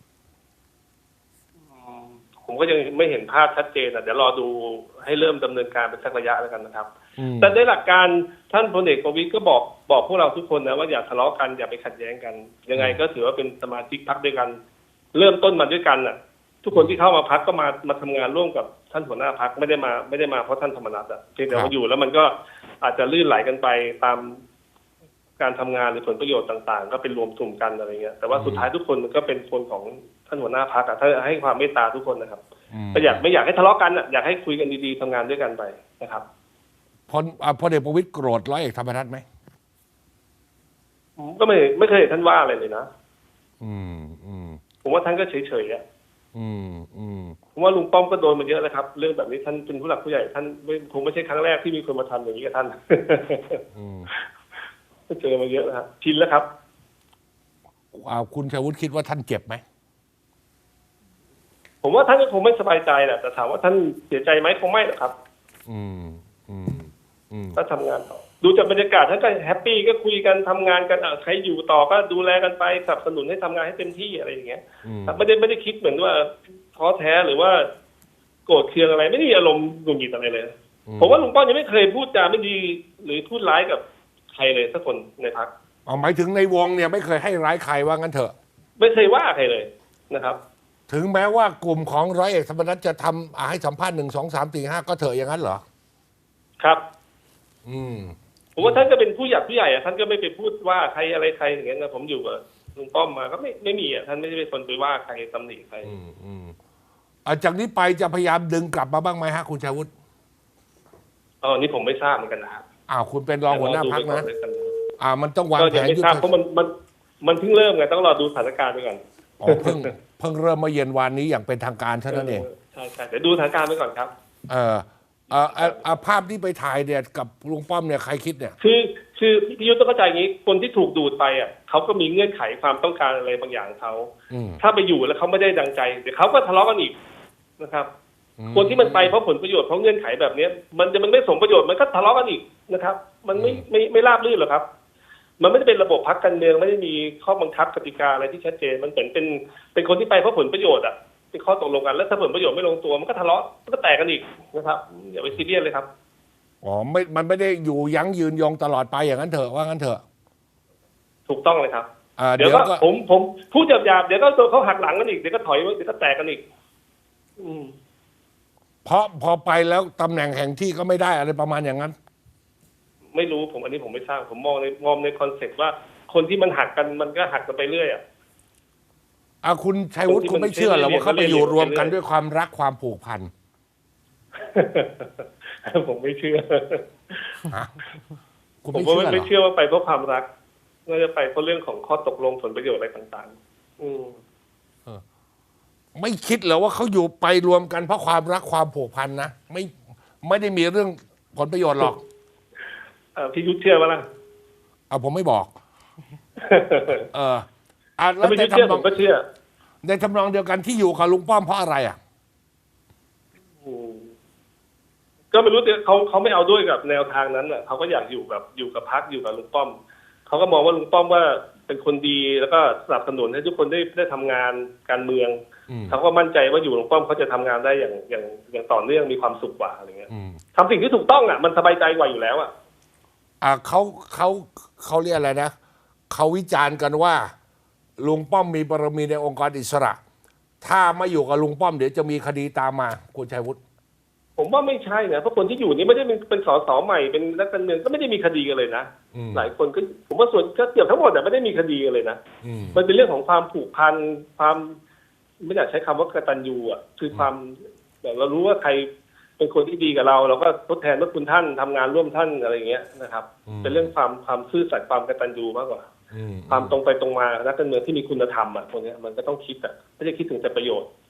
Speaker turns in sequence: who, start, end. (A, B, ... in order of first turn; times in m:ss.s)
0:01.8-0:06.9 A
0:07.2-0:07.6 B
0:07.4-0:14.6 A
0:12.8-0:13.0 B
0:15.1-0:24.4 A
0:16.7-0:17.0 B
0:25.4-0:32.4 A
0:28.3-0:28.7 B
0:32.7-0:33.2 B
0:32.9-0:36.2 A
0:37.1-0:39.2 B
0:41.2-0:42.9 A
0:43.6-0:44.6 B
0:44.8-0:45.8 A
0:46.4-0:47.4 B
0:47.6-0:53.6 A
0:53.7-0:54.1 B
0:55.1-0:56.5 A
0:57.9-0:59.6 B
1:01.8-1:05.1 A
1:05.7-1:07.6 B
1:07.6-1:17.7 A
1:14.8-1:15.2 B
1:18.5-1:23.8 A
1:20.9-1:21.3 B
1:24.3-1:25.5 A
1:25.9-1:28.3 B
1:28.8-1:30.4 A
1:30.9-1:35.6 B
1:37.6-1:38.9 B
1:38.6-1:45.9 A
1:45.8-1:46.6 B
1:47.2-1:49.9 B
1:51.4-1:52.6 A
1:52.9-1:54.3 B
1:53.5-1:54.8 A
1:55.0-1:56.2 B
1:55.6-1:56.7 A
1:57.2-1:59.9 A
1:59.4-2:02.5 B
2:02.1-2:04.1 A
2:04.5-2:08.6 B
2:05.4-2:05.9 A
2:08.6-2:17.0 A
2:14.3-2:14.6 B
2:17.6-2:17.9 A
2:18.4-2:19.2 B
2:18.5-2:24.6 A
2:23.4-2:23.6 B
2:25.4-2:35.9 A
2:36.6-2:40.0 B
2:41.3-2:41.9 A
2:42.2-2:42.8 B
2:42.4-2:46.4 A
2:47.4-2:47.7 A
2:48.8-2:52.0 B
2:53.1-2:58.0 A
2:59.4-3:03.3 B
3:00.1-3:02.0 A
3:04.4-3:07.4 A
3:07.5-3:07.8 B
3:08.6-3:09.3 B
3:08.7-3:10.3 A
3:10.9-3:14.2 A
3:16.0-3:19.7 B
3:20.2-3:22.0 B
3:23.2-3:24.0 A
3:24.9-3:25.5 B
3:26.4-3:27.1 A
3:27.0-3:27.5 B
3:28.0-3:28.9 B
3:28.2-3:29.2 A
3:29.8-3:32.0 B
3:33.6-3:34.1 A
3:35.3-3:39.8 A
3:40.3-3:45.4 A
3:45.7-3:46.0 B
3:45.9-3:52.5 A
3:50.1-3:50.4 B
3:53.4-3:55.5 B
3:56.1-3:57.3 B
3:58.0-4:00.0 B
4:00.6-4:03.6 B
4:04.4-4:12.2 A
4:09.1-4:09.5 B
4:12.4-4:12.8 B
4:12.7-4:14.8 A
4:15.4-4:25.8 A
4:23.5-4:23.9 B
4:26.1-4:26.8 B
4:26.5-4:30.9 A